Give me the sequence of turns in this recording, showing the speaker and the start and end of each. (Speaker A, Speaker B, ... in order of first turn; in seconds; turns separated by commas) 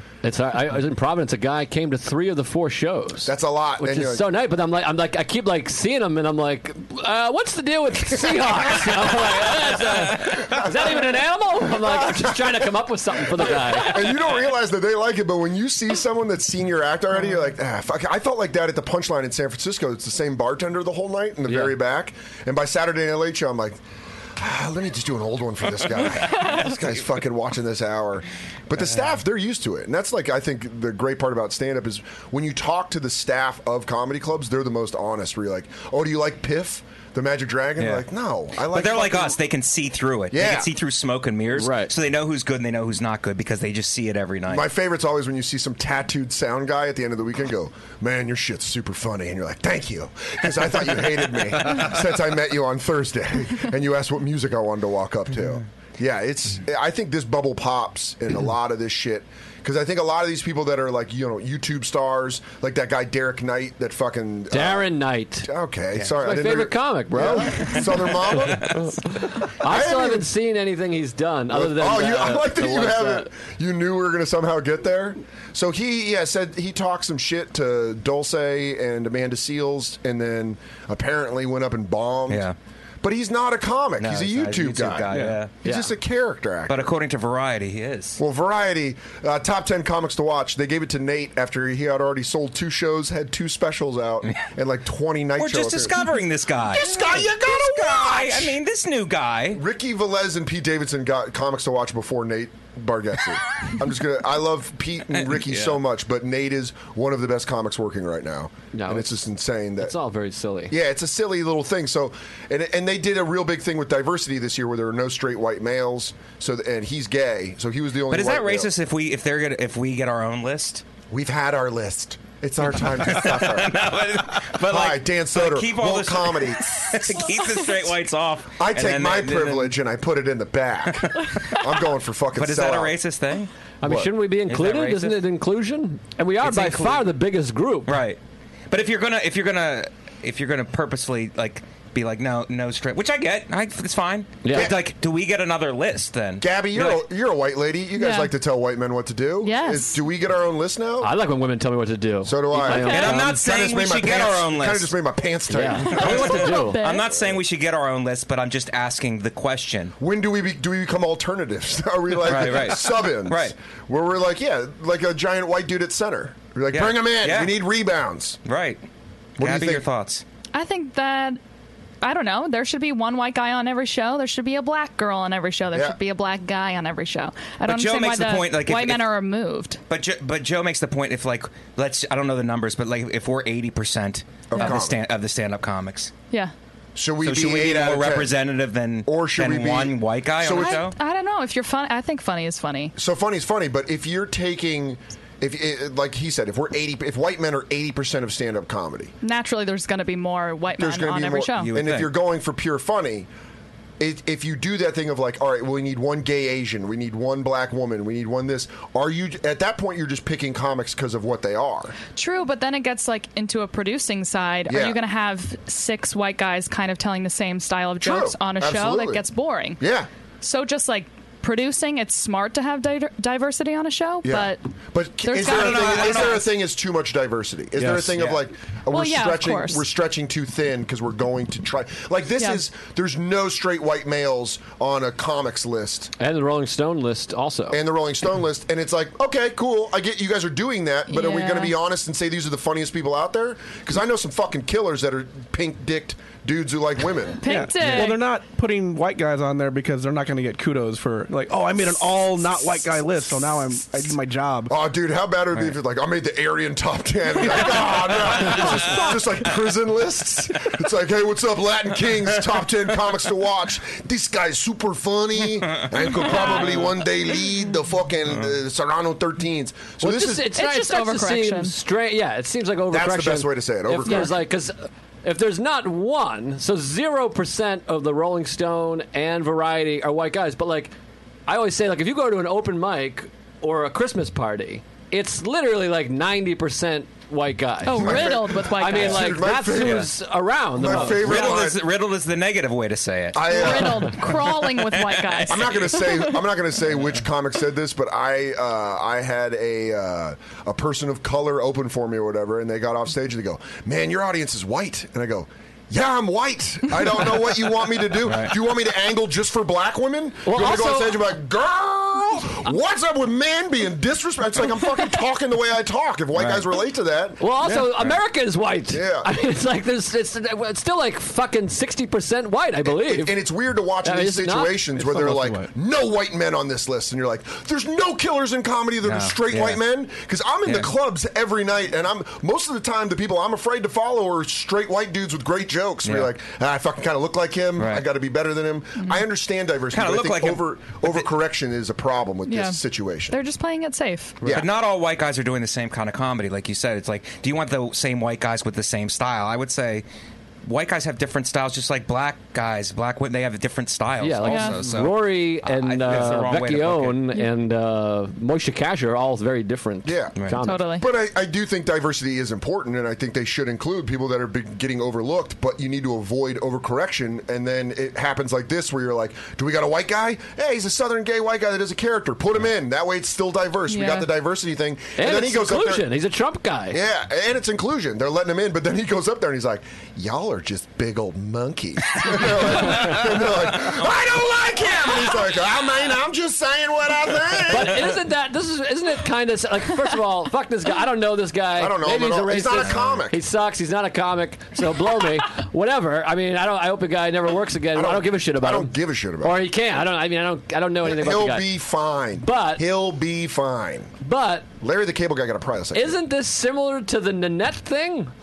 Speaker A: 0.2-14.1, Speaker B: 3.3-4.3, Speaker B: 10.1-11.0, Speaker B: 11.7-12.7, Speaker B: 13.4-23.8, Speaker A: 21.5-21.8, Speaker B: 24.4-39.4, Speaker C: 37.8-38.0, Speaker C: 38.6-44.7, Speaker B: 40.3-40.7, Speaker A: 41.6-41.9, Speaker B: 44.5-68.8, Speaker A: 64.5-65.5, Speaker A: 66.2-67.9, Speaker C: 68.4-68.8, Speaker A: 68.7-73.3, Speaker B: 69.6-70.3, Speaker B: 71.5-82.5, Speaker C: 82.3-82.6, Speaker B: 83.0-87.0, Speaker C: 84.0-85.5, Speaker D: 85.1-85.4, Speaker A: 85.6-85.9, Speaker C: 86.7-88.2, Speaker B: 88.2-96.1, Speaker C: 95.4-99.6, Speaker B: 96.6-98.6, Speaker B: 99.5-110.0, Speaker C: 105.2-105.8, Speaker A: 108.7-109.2, Speaker A: 109.8-110.8, Speaker B: 110.7-118.7, Speaker C: 118.1-120.8, Speaker B: 121.1-127.3, Speaker C: 122.8-129.8, Speaker B: 128.6-133.0, Speaker C: 130.9-131.6, Speaker C: 132.3-133.5, Speaker A: 133.8-138.0, Speaker B: 133.8-134.1, Speaker C: 134.5-135.2, Speaker C: 136.4-137.1, Speaker C: 137.9-138.2, Speaker C: 138.7-147.0, Speaker A: 144.4-144.8, Speaker B: 144.5-144.9, Speaker B: 146.4-151.1, Speaker E: 148.0-148.3, Speaker E: 149.4-150.0, Speaker A: 151.0-153.3, Speaker B: 152.2-156.4, Speaker E: 152.7-153.1, Speaker C: 152.8-154.9, Speaker A: 155.5-156.8, Speaker C: 155.8-159.9, Speaker E: 155.9-157.1, Speaker B: 160.0-168.4, Speaker C: 162.2-163.5, Speaker C: 166.7-167.6, Speaker C: 168.4-168.8, Speaker B: 169.4-169.9, Speaker C: 169.4-170.2, Speaker E: 170.5-171.4, Speaker E: 172.0-179.8, Speaker B: 175.7-176.0, Speaker C: 177.7-179.1, Speaker C: 179.9-186.1, Speaker B: 184.5-185.0, Speaker B: 187.0-188.4, Speaker C: 187.2-190.9, Speaker B: 189.1-190.9, Speaker E: 190.5-192.9, Speaker B: 193.0-199.1, Speaker E: 199.2-201.7, Speaker B: 200.8-203.3, Speaker C: 201.6-202.1, Speaker B: 204.0-211.9, Speaker E: 212.2-219.8, Speaker B: 214.7-215.0, Speaker B: 218.0-219.2, Speaker B: 219.8-220.1, Speaker E: 220.4-224.6, Speaker B: 224.2-236.1, Speaker E: 225.2-226.5, Speaker C: 225.4-226.5, Speaker E: 228.9-229.8, Speaker A: 236.2-237.8, Speaker B: 237.7-247.4, Speaker E: 241.1-241.8, Speaker E: 247.4-248.3, Speaker D: 247.4-254.7, Speaker B: 254.7-270.6, Speaker C: 265.8-266.3, Speaker E: 266.4-266.7, Speaker A: 270.0-280.9, Speaker E: 270.5-271.7, Speaker B: 272.9-274.4, Speaker E: 274.1-274.3, Speaker A: 281.5-291.6, Speaker E: 287.8-289.5, Speaker B: 287.9-290.1, Speaker C: 289.8-290.1, Speaker B: 290.7-291.9, Speaker C: 290.8-295.9, Speaker B: 293.3-294.5, Speaker E: 293.5-296.4, Speaker B: 295.5-317.4, Speaker C: 308.2-308.6, Speaker A: 310.4-311.3, Speaker C: 316.4-316.7, Speaker A: 317.4-323.4, Speaker B: 318.9-319.3, Speaker B: 322.8-343.4, Speaker A: 324.0-324.8, Speaker D: 325.0-325.7, Speaker C: 329.0-329.8, Speaker C: 336.1-336.3, Speaker C: 337.8-338.1, Speaker C: 339.9-341.2, Speaker E: 342.5-342.8, Speaker E: 343.3-344.4, Speaker B: 344.4-344.7, Speaker C: 344.5-350.1, Speaker C: 350.6-357.2, Speaker A: 354.2-360.9, Speaker E: 354.5-354.8, Speaker B: 360.1-360.4, Speaker E: 360.6-361.1, Speaker B: 361.0-376.1, Speaker E: 373.9-374.3, Speaker A: 375.2-377.0, Speaker B: 376.9-388.2, Speaker A: 387.7-401.7, Speaker B: 391.8-393.4, Speaker C: 392.9-393.1, Speaker B: 397.9-399.6, Speaker B: 401.0-404.1, Speaker A: 402.4-402.9, Speaker A: 404.2-404.7, Speaker B: 404.8-406.2, Speaker A: 405.9-408.3